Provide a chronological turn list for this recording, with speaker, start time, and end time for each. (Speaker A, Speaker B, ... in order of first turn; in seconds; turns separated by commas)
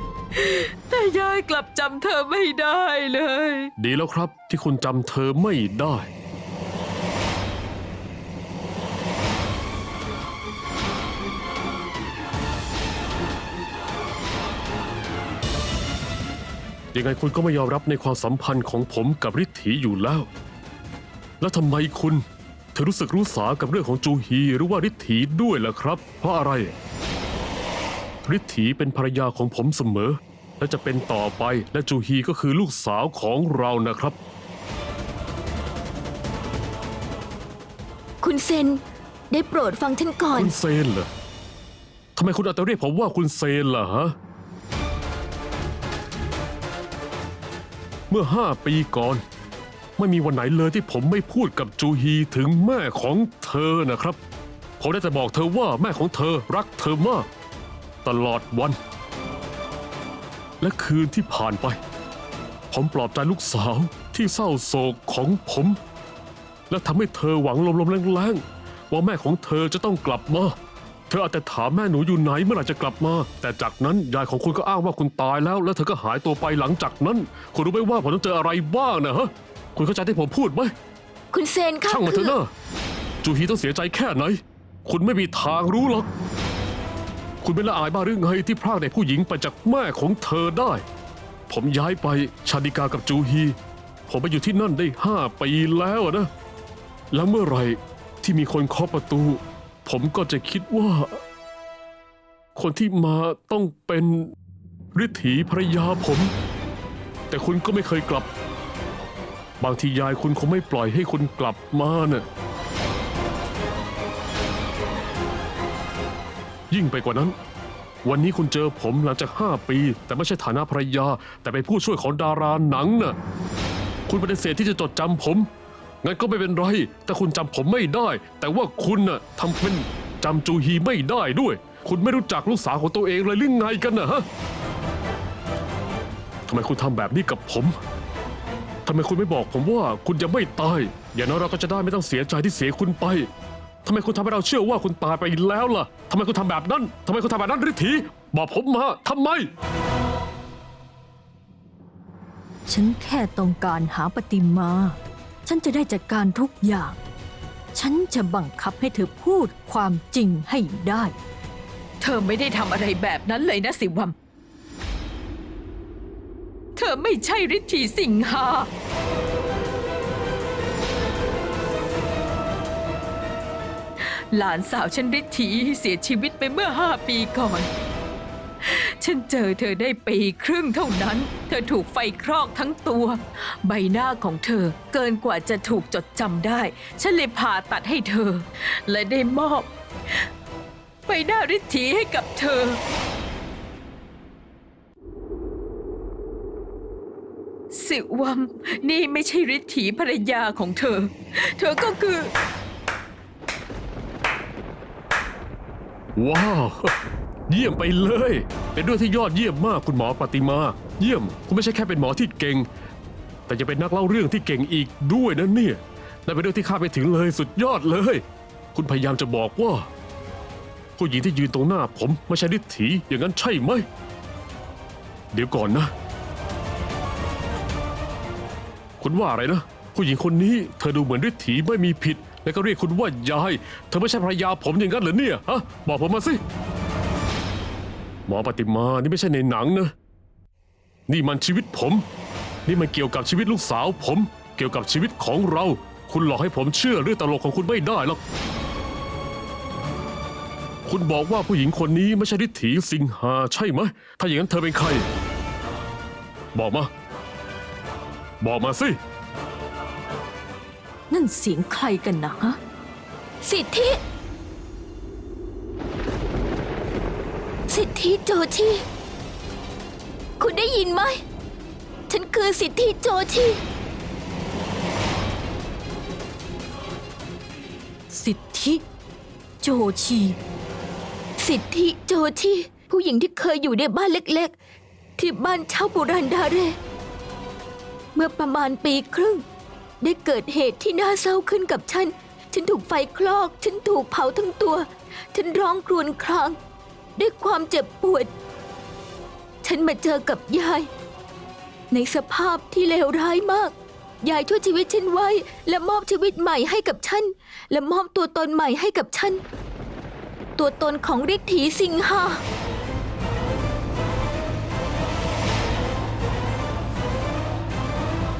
Speaker A: 0.3-3.7, Speaker B: 3.8-6.1, Speaker B: 16.9-20.3, Speaker B: 21.4-22.2, Speaker B: 22.8-26.7, Speaker B: 28.2-34.2, Speaker C: 38.2-40.5, Speaker B: 40.3-41.1, Speaker B: 42.2-44.1, Speaker B: 48.1-49.2, Speaker B: 50.0-54.2, Speaker B: 54.8-57.3, Speaker B: 58.0-58.8, Speaker B: 60.6-61.8, Speaker B: 62.7-65.8, Speaker B: 66.7-70.5, Speaker B: 71.1-80.7, Speaker C: 81.3-82.4, Speaker B: 81.9-82.5, Speaker B: 83.2-86.1, Speaker B: 87.4-90.8, Speaker B: 91.5-93.5, Speaker B: 94.1-96.3, Speaker B: 97.1-101.2, Speaker B: 102.5-104.3, Speaker B: 104.9-106.3, Speaker B: 107.3-108.3, Speaker B: 109.6-112.2, Speaker B: 116.7-117.3, Speaker B: 118.0-123.2, Speaker B: 124.1-125.5, Speaker B: 126.0-134.2, Speaker B: 136.5-137.8, Speaker B: 138.8-143.3, Speaker B: 143.8-149.5, Speaker D: 152.7-154.9, Speaker D: 155.5-156.9, Speaker D: 157.8-161.1, Speaker A: 162.0-164.2, Speaker A: 166.8-168.7, Speaker A: 174.0-177.7, Speaker A: 178.6-190.2, Speaker A: 191.1-192.8, Speaker A: 197.7-202.3, Speaker B: 206.2-206.9, Speaker B: 207.5-212.7, Speaker B: 213.5-218.2, Speaker B: 218.7-219.9, Speaker B: 221.0-223.8, Speaker B: 225.3-225.9, Speaker B: 229.0-236.4, Speaker B: 238.3-239.9, Speaker B: 241.1-242.0, Speaker B: 242.7-248.2, Speaker B: 250.8-255.1, Speaker B: 256.5-256.9, Speaker B: 258.4-259.0, Speaker D: 261.1-262.6, Speaker C: 263.4-264.0, Speaker C: 267.7-268.8, Speaker C: 270.4-271.2, Speaker C: 272.1-273.6, Speaker D: 278.1-278.8, Speaker D: 279.6-280.4, Speaker C: 281.4-284.5, Speaker C: 285.2-286.8, Speaker C: 288.1-289.4, Speaker C: 290.0-296.6, Speaker C: 297.1-298.3, Speaker C: 299.6-300.9, Speaker C: 301.9-309.4, Speaker C: 310.6-312.4